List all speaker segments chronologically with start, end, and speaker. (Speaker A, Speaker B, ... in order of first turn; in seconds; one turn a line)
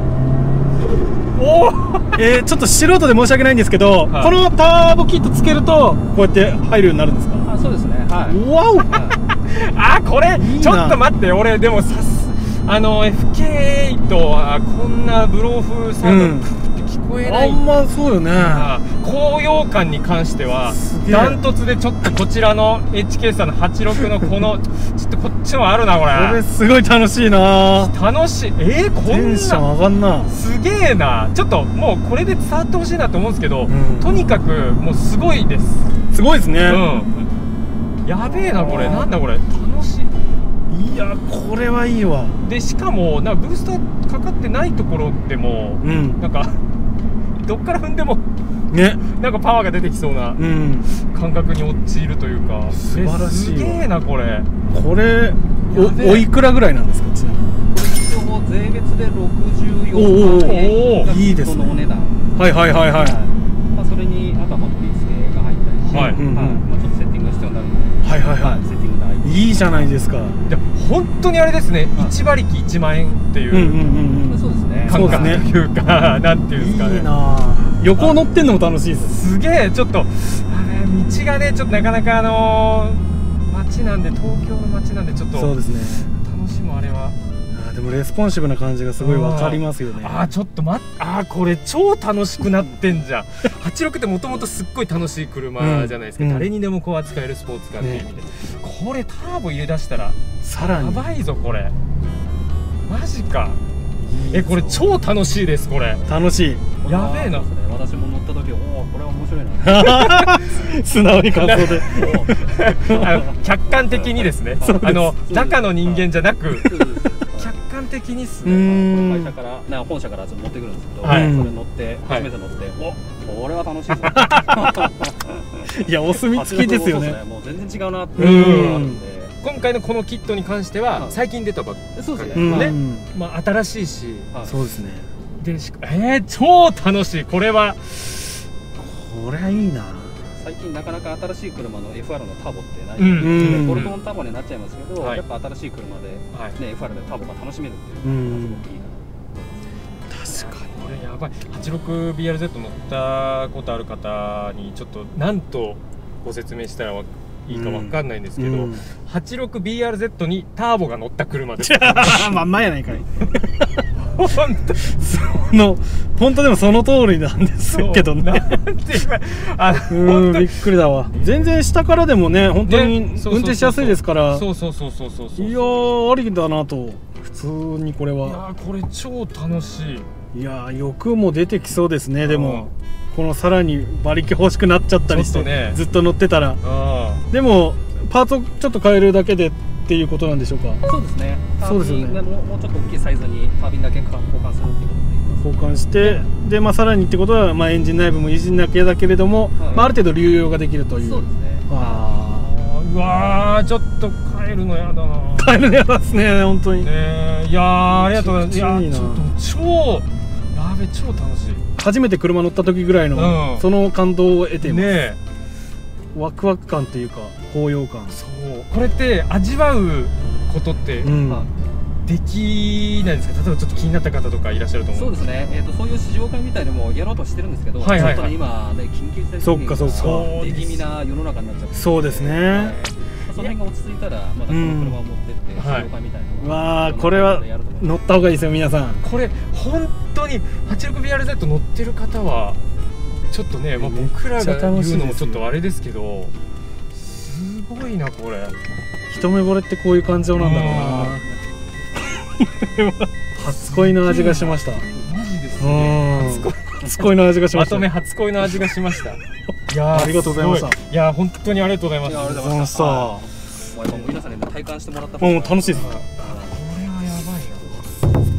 Speaker A: 1.4-2.1
Speaker B: 2.1-7.5
Speaker A: 4.1-4.3
Speaker C: 7.4-9.2
Speaker B: 8.3-8.9
Speaker A: 9.5-17.6
Speaker B: 10.3-11.0
Speaker B: 16.0-16.5
Speaker B: 17.2-18.7
Speaker A: 18.3-26.4
Speaker B: 20.7-21.4
Speaker B: 26.1-27.9
Speaker A: 27.8-29.7
Speaker B: 29.0-30.3
Speaker A: 30.3-35.9
Speaker B: 33.7-34.2
Speaker B: 36.1-36.9
Speaker A: 36.6-37.3
Speaker A: 38.0-40.1
Speaker B: 38.3-39.1
Speaker B: 40.7-42.4
Speaker A: 42.4-46.6
Speaker B: 45.8-46.2
Speaker A: 47.4-48.2
Speaker B: 48.7-49.0
Speaker A: 49.1-54.5
Speaker B: 50.4-50.9
Speaker B: 52.7-53.9
Speaker B: 54.7-57.5
Speaker A: 55.7-56.3
Speaker C: 57.7-69.9
Speaker B: 60.0-61.8
Speaker A: 60.3-61.1
Speaker B: 62.4-63.2
Speaker B: 65.9-66.7
Speaker A: 65.9-66.2
Speaker B: 68.0-68.6
Speaker B: 69.2-70.4
Speaker A: 70.5-73.8
Speaker B: 73.5-75.5
Speaker C: 74.3-75.4
Speaker A: 74.9-77.1
Speaker B: 76.5-79.2
Speaker A: 79.0-87.2
Speaker B: 85.3-86.2
Speaker B: 87.5-90.3
Speaker A: 89.0-101.7
Speaker B: 95.6-96.5
Speaker B: 97.8-98.1
Speaker B: 100.4-101.1
Speaker A: 102.9-103.6
Speaker B: 104.0-104.9
Speaker A: 104.3-106.0
Speaker B: 106.1-106.7
Speaker C: 106.8-110.8
Speaker A: 106.8-107.5
Speaker B: 109.6-113.2
Speaker A: 110.0-110.4
Speaker A: 111.3-116.8
Speaker C: 111.6-113.4
Speaker C: 114.0-117.5
Speaker B: 114.6-115.1
Speaker A: 117.4-118.7
Speaker B: 118.4-119.3
Speaker C: 118.5-125.7
Speaker A: 121.0-121.4
Speaker B: 121.0-121.6
Speaker A: 124.0-124.5
Speaker B: 124.1-124.9
Speaker B: 125.7-127.2
Speaker C: 126.3-129.3
Speaker B: 128.2-129.0
Speaker A: 128.2-128.9
Speaker A: 129.4-134.3
Speaker C: 130.9-131.2
Speaker C: 131.9-132.8
Speaker B: 132.3-133.1
Speaker B: 134.4-135.1
Speaker A: 135.4-138.5
Speaker B: 138.8-140.2
Speaker C: 140.4-149.7
Speaker A: 143.0-144.0
Speaker B: 143.2-143.9
Speaker A: 146.3-146.6
Speaker B: 148.0-148.7
Speaker B: 150.1-150.8
Speaker A: 150.3-162.4
Speaker B: 157.5-158.8
Speaker B: 161.6-163.8
Speaker A: 164.0-164.9
Speaker B: 164.8-168.6
Speaker A: 167.7-170.6
Speaker B: 169.9-174.5
Speaker A: 172.7-175.8
Speaker B: 175.4-178.4
Speaker A: 178.2-180.1
Speaker B: 180.3-186.6
Speaker A: 182.2-182.7
Speaker A: 185.1-185.8
Speaker A: 186.6-187.2
Speaker B: 187.3-190.8
Speaker C: 190.8-196.2
Speaker B: 191.6-192.2
Speaker B: 195.4-202.5
Speaker C: 199.6-199.9
Speaker C: 201.0-202.1
Speaker A: 202.2-205.6
Speaker B: 205.4-206.9
Speaker A: 206.8-211.6
Speaker B: 207.9-209.3
Speaker B: 211.8-215.0
Speaker A: 213.1-213.7
Speaker A: 214.6-215.2
Speaker B: 216.1-218.2
Speaker A: 218.1-221.2
Speaker B: 221.0-221.5
Speaker A: 222.1-225.3
Speaker C: 224.9-237.9
Speaker A: 227.8-228.3
Speaker B: 227.9-228.2
Speaker B: 229.4-230.3
Speaker A: 229.9-230.8
Speaker B: 231.7-232.8
Speaker B: 234.5-235.0
Speaker A: 235.6-235.9
Speaker B: 236.4-239.0
Speaker A: 239.0-242.6
Speaker A: 243.3-246.3
Speaker B: 243.8-245.5
Speaker A: 246.9-248.6
Speaker B: 249.1-251.3
Speaker A: 250.3-251.2
Speaker B: 252.2-254.9
Speaker A: 253.6-262.5
Speaker B: 255.6-257.9
Speaker B: 259.9-260.8
Speaker C: 262.0-266.6
Speaker B: 262.2-263.3
Speaker B: 265.2-266.0
Speaker A: 265.7-267.8